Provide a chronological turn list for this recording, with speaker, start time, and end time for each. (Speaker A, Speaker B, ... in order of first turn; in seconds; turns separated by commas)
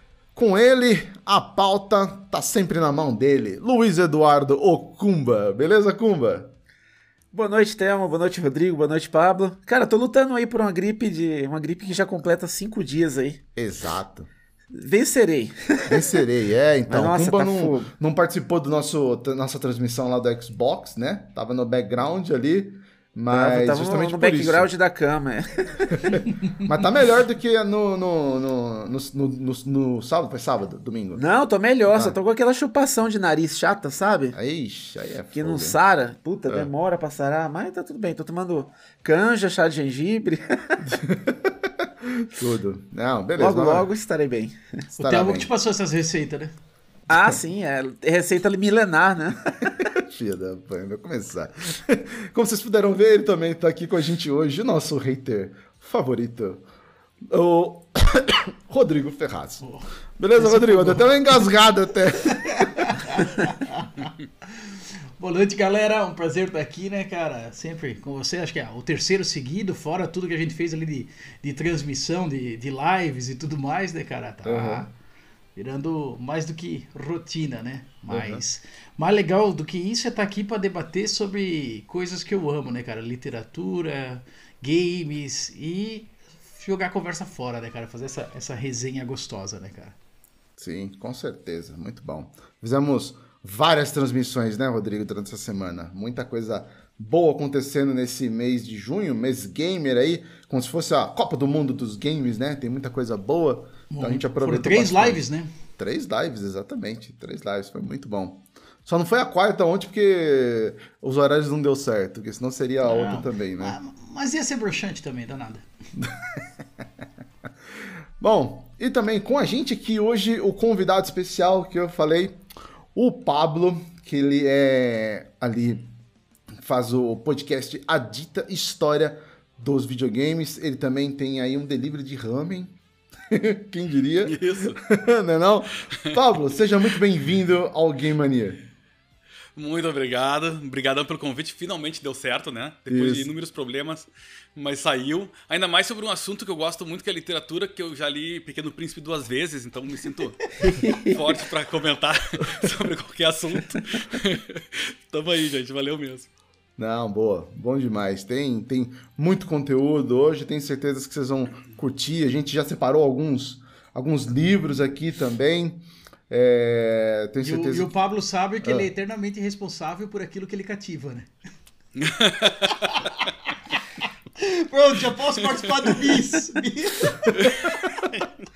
Speaker A: 0.3-6.5, Speaker B: 7.3-13.4, Speaker A: 13.6-14.3, Speaker B: 14.7-16.2, Speaker A: 15.9-24.7, Speaker B: 16.9-17.9, Speaker B: 23.3-26.0, Speaker A: 25.9-31.2, Speaker B: 31.2-34.4, Speaker A: 31.9-32.2, Speaker A: 34.3-35.8, Speaker B: 35.3-41.0, Speaker A: 40.9-43.9, Speaker B: 43.4-44.9, Speaker C: 44.9-46.5, Speaker A: 45.0-45.5, Speaker B: 47.1-49.8, Speaker A: 47.1-47.4, Speaker A: 49.6-56.6, Speaker A: 57.2-59.6, Speaker C: 59.6-61.1, Speaker A: 60.2-62.9, Speaker C: 62.5-64.1, Speaker C: 65.2-74.9, Speaker A: 74.4-74.9, Speaker C: 75.6-90.0, Speaker A: 78.1-78.4, Speaker A: 90.6-105.2, Speaker C: 103.9-105.5, Speaker A: 105.8-113.8, Speaker C: 112.8-115.6, Speaker A: 118.2-122.4, Speaker A: 122.9-125.9, Speaker A: 126.6-132.8, Speaker A: 133.3-138.6, Speaker D: 134.2-134.8, Speaker D: 139.6-156.3, Speaker A: 142.9-143.3, Speaker B: 150.6-151.2, Speaker A: 156.8-167.9, Speaker C: 167.4-171.3, Speaker D: 172.0-173.0, Speaker C: 174.0-177.4, Speaker D: 177.3-178.2